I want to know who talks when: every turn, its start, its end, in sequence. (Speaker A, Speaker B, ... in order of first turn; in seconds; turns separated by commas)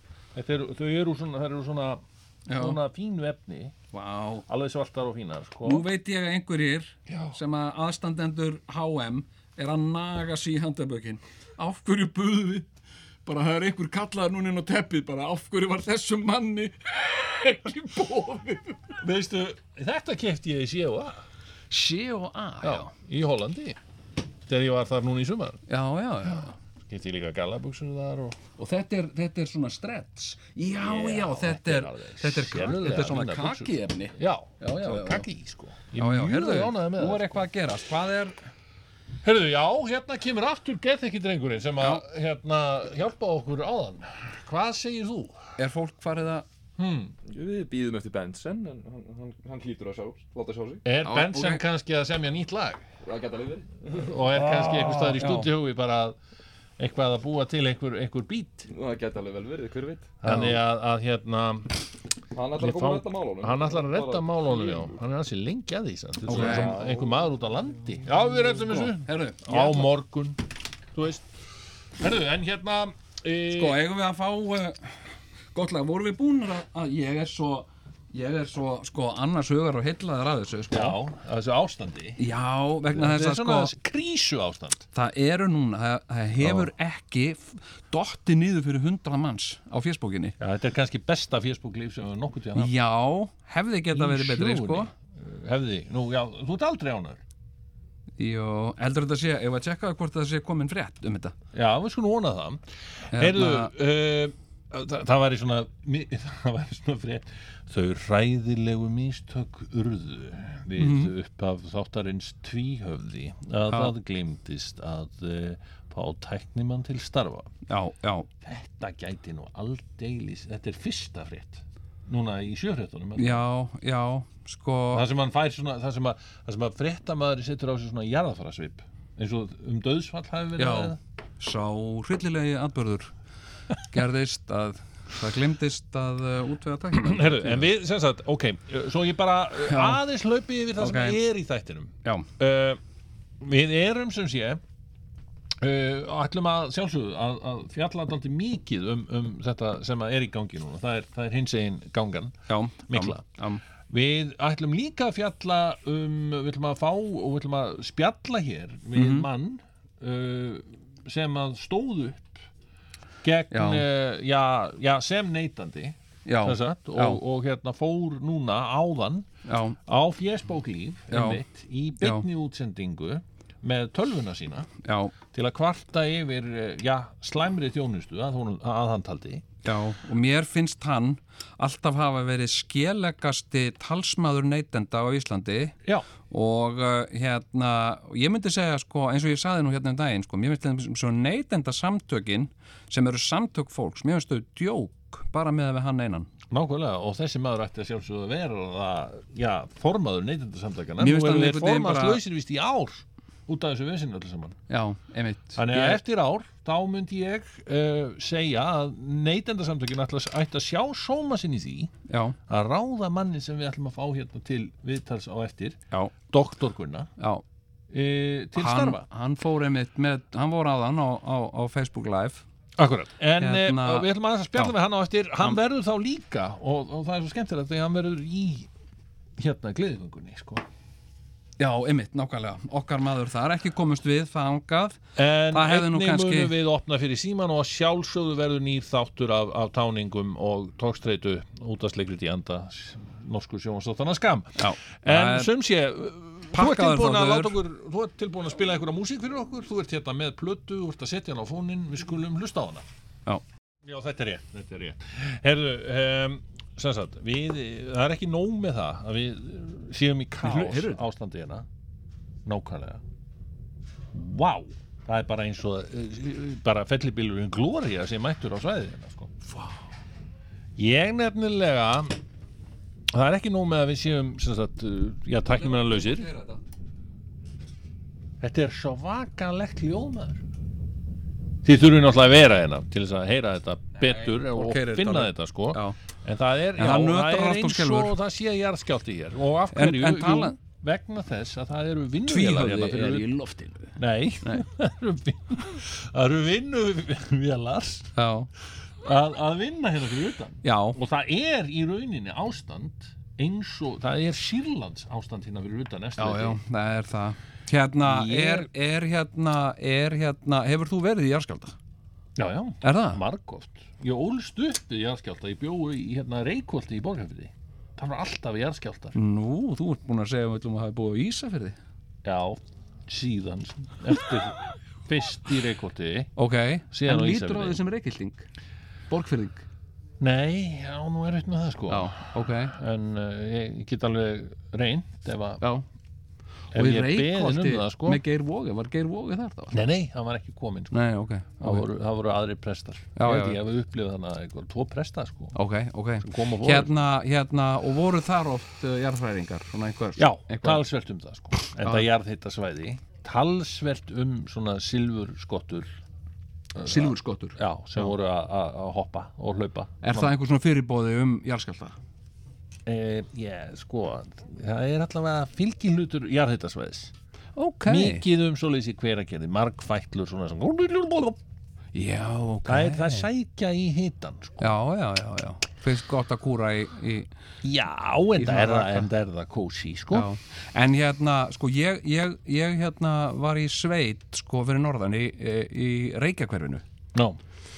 Speaker A: 0.3-3.7, Speaker B: 2.5-2.8, Speaker B: 3.9-4.5, Speaker A: 4.5-5.8, Speaker B: 5.6-12.7, Speaker A: 7.1-7.4, Speaker B: 13.2-19.0, Speaker A: 19.0-21.2, Speaker B: 21.7-22.9, Speaker A: 22.6-23.8, Speaker A: 24.5-25.6, Speaker B: 25.7-26.5, Speaker A: 26.3-28.4, Speaker B: 28.6-35.2, Speaker A: 30.8-37.4, Speaker B: 36.0-38.4, Speaker A: 39.2-45.4, Speaker B: 45.6-46.5, Speaker A: 46.8-47.1, Speaker C: 47.2-50.8, Speaker A: 50.8-52.8, Speaker B: 51.0-51.6, Speaker C: 53.0-54.7, Speaker A: 54.0-56.2, Speaker B: 54.6-55.5, Speaker A: 56.8-58.7, Speaker C: 58.7-60.1, Speaker A: 60.2-61.8, Speaker B: 60.2-60.6, Speaker C: 62.3-65.0, Speaker A: 62.5-70.4, Speaker B: 66.3-66.7, Speaker C: 66.3-67.2, Speaker B: 68.7-69.9, Speaker A: 70.9-71.4, Speaker A: 72.0-73.8, Speaker B: 73.5-81.0, Speaker A: 80.7-82.2, Speaker B: 82.2-83.7, Speaker A: 82.9-84.8, Speaker B: 84.9-90.3, Speaker A: 86.4-86.7, Speaker A: 90.4-92.7, Speaker B: 92.5-94.9, Speaker A: 93.9-97.2, Speaker B: 98.2-101.3, Speaker A: 101.5-117.5, Speaker B: 103.1-103.7, Speaker B: 110.8-111.1, Speaker B: 113.7-113.9, Speaker B: 117.7-118.3, Speaker A: 118.4-123.4, Speaker B: 123.2-125.0, Speaker A: 124.9-131.0, Speaker B: 130.6-133.1, Speaker B: 133.8-137.7, Speaker A: 136.9-142.8, Speaker B: 139.6-140.0, Speaker B: 140.8-141.2, Speaker A: 143.4-144.6, Speaker A: 145.6-152.3, Speaker B: 152.5-153.6, Speaker A: 152.9-153.2, Speaker A: 153.9-162.5, Speaker B: 158.9-159.3, Speaker A: 163.2-169.3, Speaker B: 163.5-163.8, Speaker B: 166.2-167.2, Speaker B: 169.4-169.8, Speaker A: 169.8-174.7, Speaker B: 171.1-171.4, Speaker B: 172.0-172.3, Speaker B: 174.8-175.1, Speaker A: 175.3-179.4, Speaker B: 179.6-185.8, Speaker B: 186.3-196.3, Speaker A: 196.5-204.6, Speaker B: 201.0-202.2, Speaker B: 204.7-206.0, Speaker A: 205.6-211.9, Speaker B: 212.1-212.4, Speaker A: 212.5-215.8, Speaker A: 216.3-217.1, Speaker B: 217.2-217.4, Speaker A: 217.9-219.0, Speaker B: 218.6-222.4, Speaker A: 222.8-228.7, Speaker B: 223.4-224.7, Speaker A: 229.4-230.6, Speaker B: 231.6-235.0, Speaker A: 235.2-252.8, Speaker B: 235.5-236.5, Speaker B: 244.6-245.5, Speaker B: 246.5-247.6, Speaker A: 253.8-261.6, Speaker B: 260.4-261.0, Speaker A: 262.4-263.0, Speaker A: 264.1-269.4, Speaker A: 270.8-272.1, Speaker A: 273.1-276.3, Speaker B: 275.5-276.6, Speaker A: 278.4-280.4, Speaker A: 281.6-293.3, Speaker B: 284.0-286.0, Speaker B: 286.8-288.2, Speaker B: 289.7-290.6, Speaker B: 292.3-294.6, Speaker A: 294.0-298.1, Speaker B: 298.1-298.5, Speaker A: 299.0-306.6, Speaker B: 300.6-301.0, Speaker B: 306.2-311.7, Speaker A: 308.0-308.7, Speaker A: 312.4-319.1, Speaker B: 312.8-313.2, Speaker B: 319.1-321.8, Speaker A: 322.2-326.3, Speaker B: 326.4-328.4, Speaker A: 326.9-327.8, Speaker B: 329.1-329.6, Speaker A: 330.2-335.6, Speaker B: 331.9-332.7, Speaker A: 336.7-338.2, Speaker B: 336.7-339.8, Speaker A: 339.7-341.0, Speaker B: 340.9-341.9, Speaker A: 341.6-345.5, Speaker B: 343.1-343.6, Speaker B: 345.5-350.8, Speaker A: 346.2-346.9, Speaker A: 350.2-356.0, Speaker A: 356.7-360.3, Speaker B: 356.8-358.1, Speaker B: 360.0-361.9, Speaker A: 362.9-367.1, Speaker B: 367.6-368.2, Speaker A: 367.9-371.4, Speaker B: 371.9-373.3, Speaker A: 372.6-374.7, Speaker B: 374.6-377.3, Speaker A: 377.6-380.3, Speaker B: 378.4-379.1, Speaker B: 380.1-386.8, Speaker A: 387.1-387.4